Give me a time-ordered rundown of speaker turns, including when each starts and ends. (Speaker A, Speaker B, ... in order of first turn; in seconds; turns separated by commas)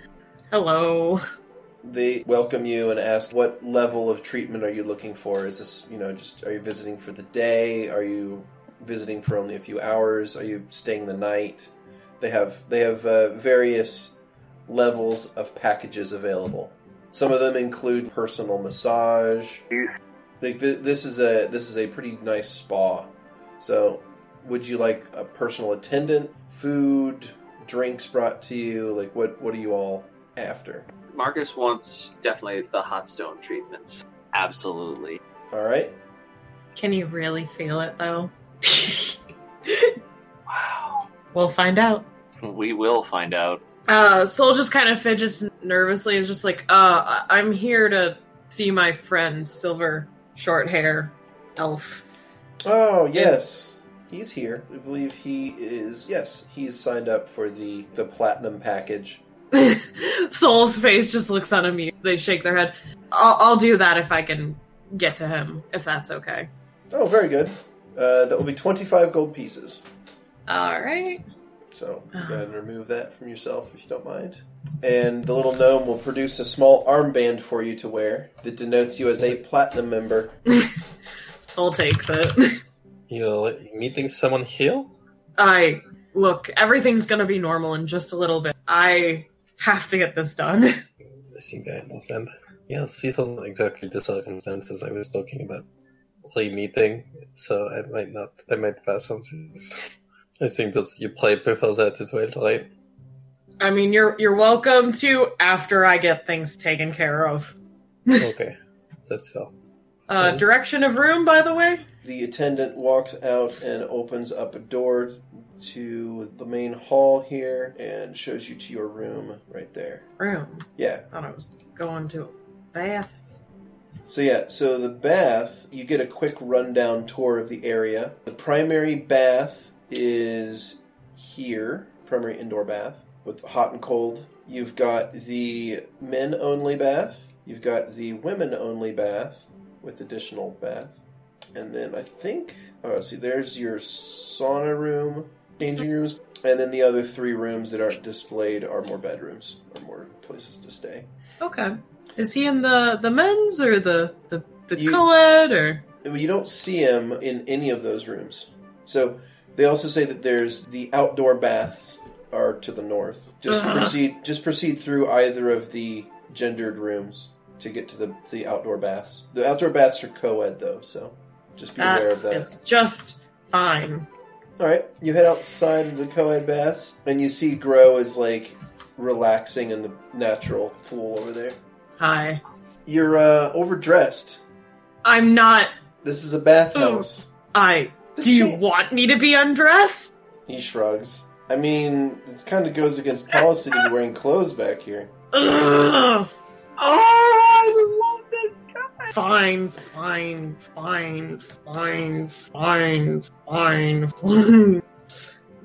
Speaker A: 0.5-1.2, Speaker B: 1.8-19.6, Speaker B: 20.4-30.9, Speaker C: 31.1-35.2, Speaker B: 35.5-36.0, Speaker A: 36.8-40.0, Speaker C: 40.5-41.0, Speaker A: 41.3-42.1, Speaker C: 42.4-43.6, Speaker A: 43.9-52.0, Speaker B: 52.6-59.2, Speaker A: 59.5-66.5, Speaker B: 66.9-69.8, Speaker A: 70.5-71.2, Speaker B: 71.7-80.4, Speaker A: 72.1-72.4, Speaker A: 80.5-80.8, Speaker A: 81.4-82.6, Speaker D: 83.1-84.9, Speaker A: 85.4-90.8, Speaker D: 91.3-95.7, Speaker D: 96.3-99.8, Speaker D: 100.4-102.7, Speaker A: 103.6-107.5, Speaker D: 108.2-109.5, Speaker A: 110.1-111.8, Speaker B: 112.0-120.0, Speaker A: 120.2-123.1, Speaker B: 120.8-121.0, Speaker B: 124.1-141.0, Speaker B: 141.5-151.1, Speaker A: 151.4-155.8, Speaker B: 154.8-155.0, Speaker B: 156.0-172.5, Speaker A: 163.5-164.0, Speaker A: 171.8-174.1, Speaker B: 174.6-181.6, Speaker A: 182.0-182.4, Speaker B: 182.9-184.4, Speaker A: 185.0-185.7, Speaker B: 186.0-187.3, Speaker A: 186.8-190.1, Speaker B: 188.2-188.6, Speaker B: 190.5-195.1, Speaker A: 195.3-196.3, Speaker C: 196.8-199.1, Speaker A: 199.1-204.8